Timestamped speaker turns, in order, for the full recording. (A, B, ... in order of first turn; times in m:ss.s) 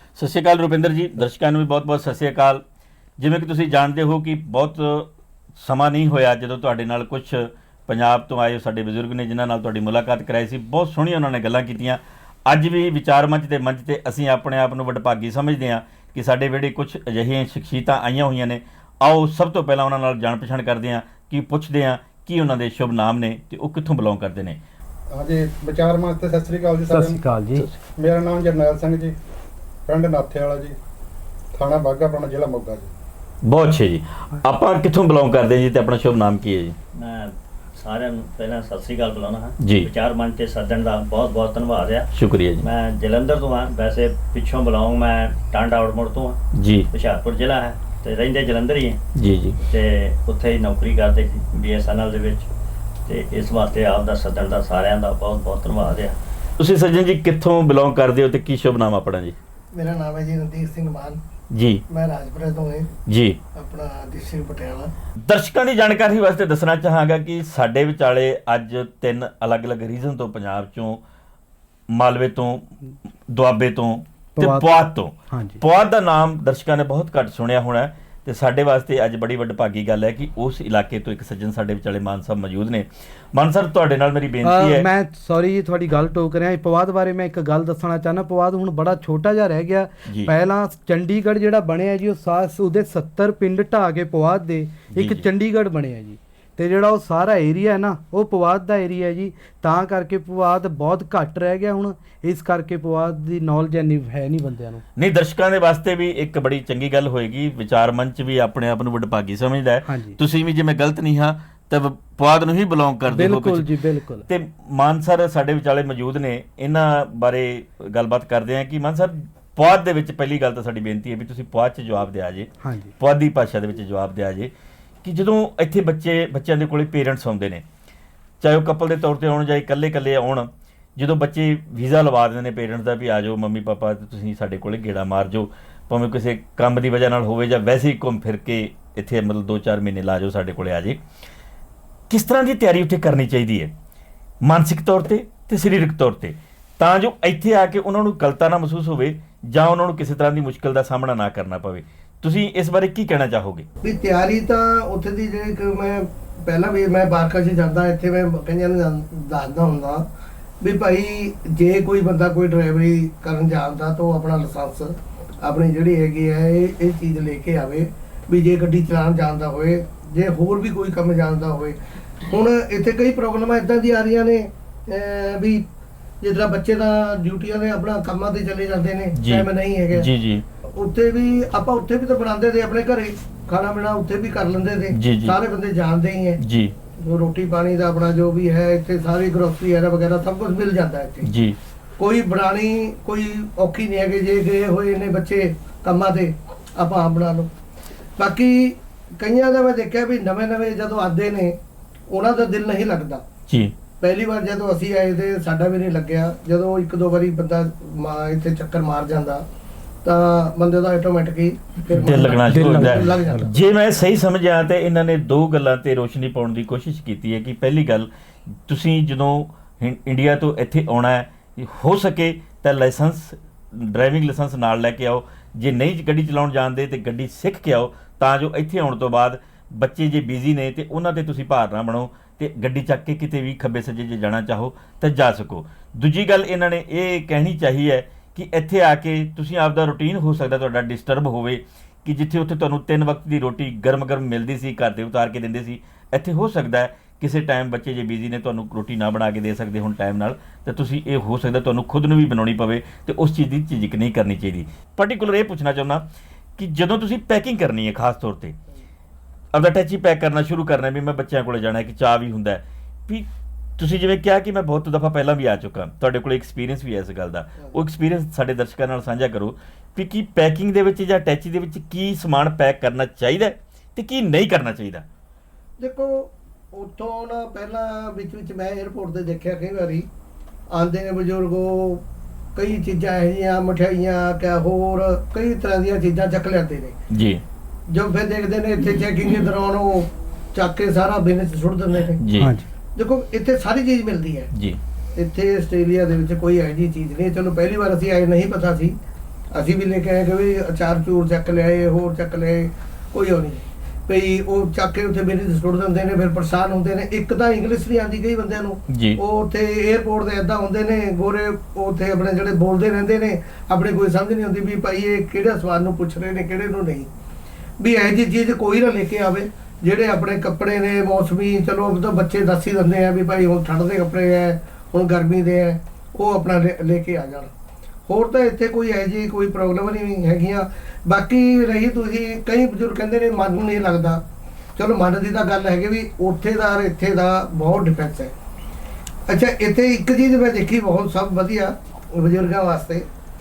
0:00.2-0:02.6 A
0:03.2-0:24.6 A
0:25.1-0:27.2 B
0:26.9-0:27.7 C
0:28.0-0:29.2 B
0:29.9-0:30.8 B
0:31.5-0:32.9 B
0:33.4-0:36.8 A
0:37.0-0:46.4 D
0:39.6-0:39.9 A
0:42.1-0:42.7 A
0:46.5-0:46.9 A
0:46.9-0:49.0 D
0:49.1-0:49.6 A
0:49.7-0:52.5 D
0:53.1-0:56.2 D
0:56.6-0:59.4 A
0:59.7-1:01.2 E
1:01.5-1:01.8 A
1:01.9-1:03.0 E
1:03.1-1:03.4 A
1:03.6-1:04.9 E
1:05.2-1:11.0 A
1:11.9-1:12.7 A
1:13.3-1:24.9 A
1:14.4-1:15.6 C
1:24.4-1:44.8 C
1:30.1-1:30.3 A
1:34.9-1:35.3 A
1:45.0-1:53.7 A
1:49.8-1:50.2 C
1:53.1-1:54.3 C
1:54.3-2:04.5 A
2:02.6-2:02.9 C
2:05.0-2:07.6 A
2:08.4-2:21.0 A
2:22.1-2:23.7 A
2:24.4-2:33.7 A
2:33.8-2:40.0 E
2:40.6-2:55.6 E
2:56.2-3:00.1 E
2:59.1-3:00.4 A
3:00.8-3:06.4 E
3:04.9-3:05.4 A
3:06.4-3:06.8 A
3:06.9-3:11.3 E
3:11.2-3:11.6 A
3:12.0-3:17.5 E
3:18.2-3:21.6 E
3:22.1-3:23.2 E
3:23.4-3:23.9 A
3:23.9-3:29.4 E
3:30.0-3:33.5 E
3:31.9-3:38.1 A
3:32.1-3:33.6 C
3:38.7-4:18.6 A
4:19.5-4:35.1 A
4:35.8-4:40.1 E
4:40.8-4:42.0 E
4:42.5-4:47.0 E
4:47.1-4:47.4 A
4:47.9-4:52.2 E
4:52.2-4:52.5 A
4:52.3-4:52.7 C
4:53.0-4:54.5 E
4:54.5-4:54.8 A
4:55.2-4:58.9 E
4:59.5-5:17.1 E
5:08.9-5:09.2 A
5:17.8-5:27.5 E
5:28.1-5:34.2 E
5:34.8-5:38.3 E
5:39.3-5:43.1 E